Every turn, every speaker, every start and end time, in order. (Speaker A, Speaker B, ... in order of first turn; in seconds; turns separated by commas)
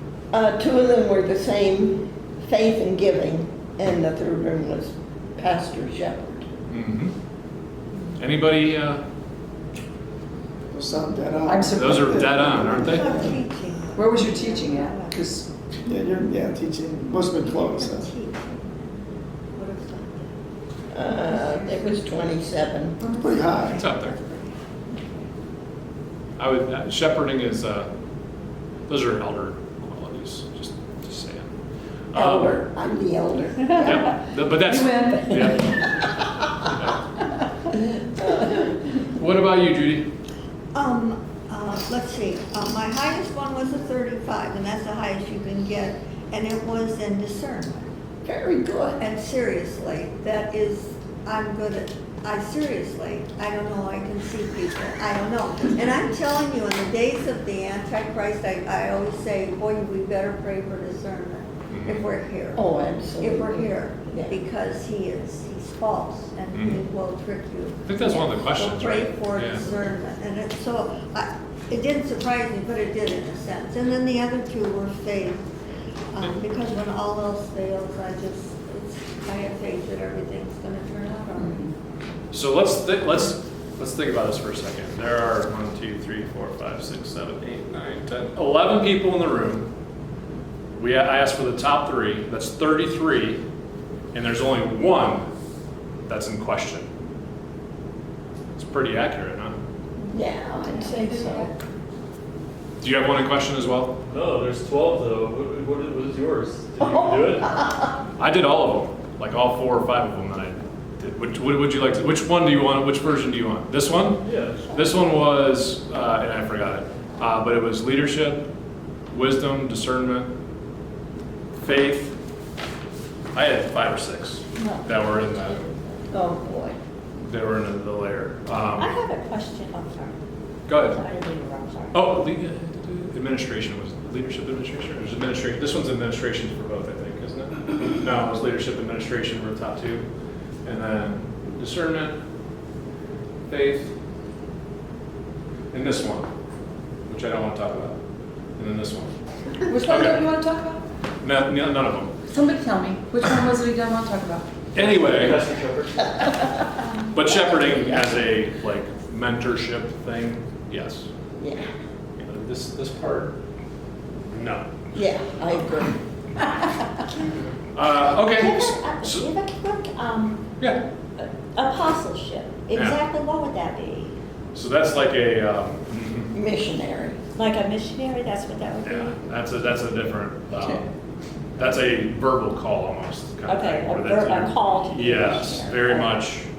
Speaker A: 0.3-6.5, Speaker B: 6.7-7.1, Speaker B: 8.2-9.0, Speaker C: 10.7-13.4, Speaker D: 11.5-12.3, Speaker B: 11.8-13.2, Speaker E: 12.4-15.3, Speaker D: 13.9-15.4, Speaker C: 15.3-18.1, Speaker E: 17.4-20.3, Speaker A: 20.9-23.0, Speaker E: 21.2-22.1, Speaker E: 23.0-25.2, Speaker C: 23.1-23.8, Speaker B: 23.7-24.2, Speaker B: 26.4-27.9, Speaker B: 28.9-31.5, Speaker B: 32.1-32.6, Speaker A: 32.1-34.1, Speaker B: 33.8-37.0, Speaker D: 34.6-35.8, Speaker A: 38.2-38.6, Speaker B: 39.0-40.1, Speaker E: 40.7-47.9, Speaker A: 48.2-49.0, Speaker E: 49.0-62.6, Speaker B: 61.7-62.0, Speaker A: 62.5-64.4, Speaker E: 63.2-75.5, Speaker B: 66.5-66.8, Speaker B: 67.9-69.7, Speaker E: 76.1-81.7, Speaker B: 82.3-89.7, Speaker B: 90.8-93.4, Speaker B: 94.1-95.3, Speaker B: 96.1-96.9, Speaker B: 98.5-99.6, Speaker A: 100.1-101.5, Speaker B: 102.8-104.0, Speaker F: 104.1-107.5, Speaker A: 107.2-107.5, Speaker B: 108.2-118.5, Speaker F: 114.2-114.7, Speaker B: 119.1-120.3, Speaker B: 121.6-122.2, Speaker B: 123.3-125.7, Speaker G: 124.6-125.7, Speaker A: 126.1-126.8, Speaker B: 127.2-128.9, Speaker G: 128.8-130.2, Speaker B: 130.7-131.0, Speaker G: 130.8-132.1, Speaker B: 131.9-140.1, Speaker B: 140.7-142.2, Speaker B: 143.5-143.9, Speaker B: 145.7-146.3, Speaker B: 147.1-148.0, Speaker B: 148.6-149.2, Speaker D: 149.7-150.8, Speaker B: 149.8-150.3, Speaker B: 151.2-152.2, Speaker D: 152.3-154.5, Speaker B: 154.8-155.4, Speaker F: 154.8-156.1, Speaker B: 157.1-161.1, Speaker A: 161.4-161.7, Speaker B: 162.2-163.4, Speaker B: 164.3-164.9, Speaker A: 164.9-166.0, Speaker B: 167.7-169.3, Speaker G: 168.3-170.5, Speaker G: 171.2-174.1, Speaker B: 172.7-173.0, Speaker B: 174.5-176.3, Speaker A: 176.3-177.2, Speaker G: 177.4-179.2, Speaker B: 178.8-180.9, Speaker B: 181.6-186.5, Speaker G: 183.5-186.2